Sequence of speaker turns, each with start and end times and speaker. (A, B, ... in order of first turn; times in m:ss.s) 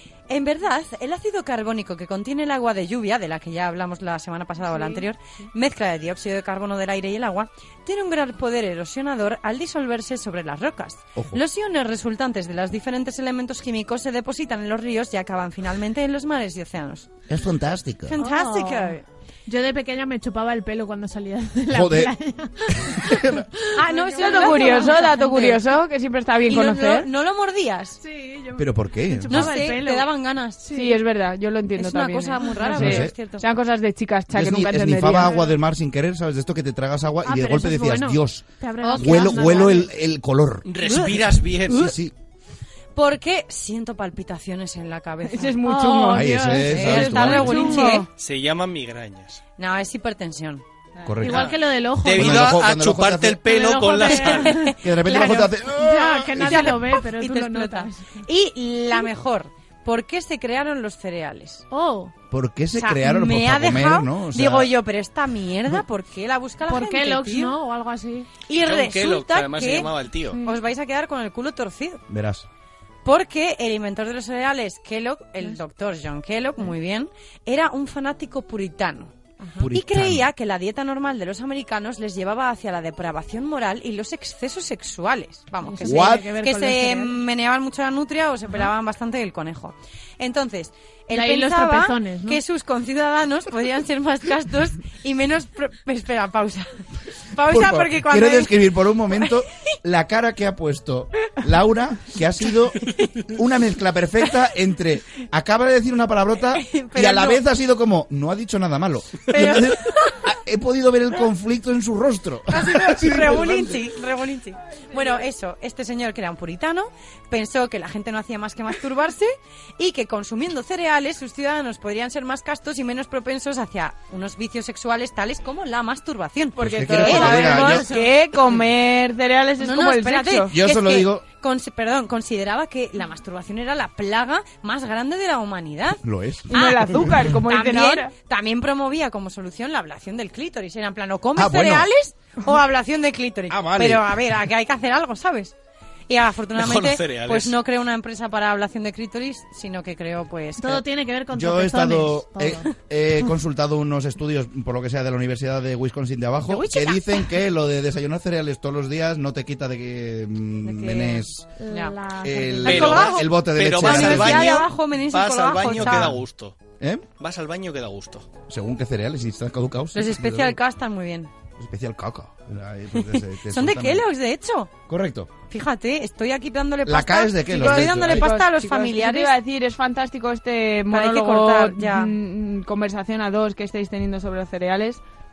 0:00.3-0:17.1 A
0:11.2-0:11.4 B
0:17.3-0:18.2 B
0:18.1-0:19.0 A
0:18.2-0:25.2 C
0:21.7-0:22.1 B
0:22.7-0:23.4 B
0:23.7-0:25.6 A
0:24.2-0:27.1 D
0:26.4-0:28.0 A
0:28.0-0:30.1 C
0:28.6-0:29.6 B
0:29.3-0:30.7 A
0:30.6-0:31.0 C
0:30.7-0:35.5 D
0:31.8-0:33.5 A
0:32.6-0:33.0 C
0:32.8-0:33.1 B
0:34.3-0:38.4 B
0:37.2-0:39.9 C
0:38.8-0:39.8 A
0:39.0-0:40.7 B
0:40.7-0:41.9 E
0:41.7-0:42.1 B
0:43.0-0:45.6 A
0:45.3-0:48.1 D
0:45.6-0:48.0 C
0:46.1-0:47.8 B
0:46.7-0:48.1 A
0:48.2-0:49.4 E
0:49.6-0:50.6 A
0:51.0-0:51.6 B
0:51.2-0:52.6 C
0:51.3-0:54.6 E
0:52.1-0:53.4 B
0:53.5-0:54.8 C
0:54.0-0:55.6 A
0:54.8-0:56.8 B
0:55.7-0:58.2 C
0:56.3-1:01.7 A
1:01.7-1:02.1 C
1:02.3-1:04.7 B
1:02.8-1:07.6 A
1:06.7-1:08.3 C
1:08.5-1:12.0 A
1:08.6-1:10.4 E
1:10.3-1:10.6 C
1:12.1-1:12.5 B
1:13.0-1:19.1 A
1:19.6-1:20.3 B
1:19.7-1:36.8 A
1:25.6-1:27.2 C
1:25.8-1:26.3 B
1:31.1-1:32.4 C
1:37.3-1:39.3 A
1:37.5-1:53.8 B
1:46.5-1:47.4 A
1:49.3-1:50.2 A
1:52.5-2:08.4 A
2:06.6-2:10.5 D
2:06.6-2:07.9 B
2:09.6-2:25.6 A
2:10.5-2:11.2 B
2:16.0-2:17.1 B
2:16.5-2:18.1 D
2:21.4-2:21.9 B
2:23.5-2:24.1 B
2:26.1-2:30.8 A
2:26.6-2:27.6 E
2:30.6-2:32.7 C
2:31.3-2:41.5 B
2:36.4-2:37.3 A
2:40.6-2:42.0 A
2:41.6-2:42.8 C
2:42.2-2:44.6 B
2:42.6-2:46.2 A
2:42.7-2:46.6 E
2:45.7-2:46.2 B
2:46.8-2:47.0 B
2:47.2-2:48.3 E
2:48.5-2:50.6 B
2:49.9-2:51.3 A
2:51.6-2:54.0 B
2:52.9-2:54.7 A
2:54.9-2:55.3 B
2:55.5-2:59.4 A
2:56.9-2:58.3 B
2:57.5-3:05.0 D
3:00.9-3:02.2 A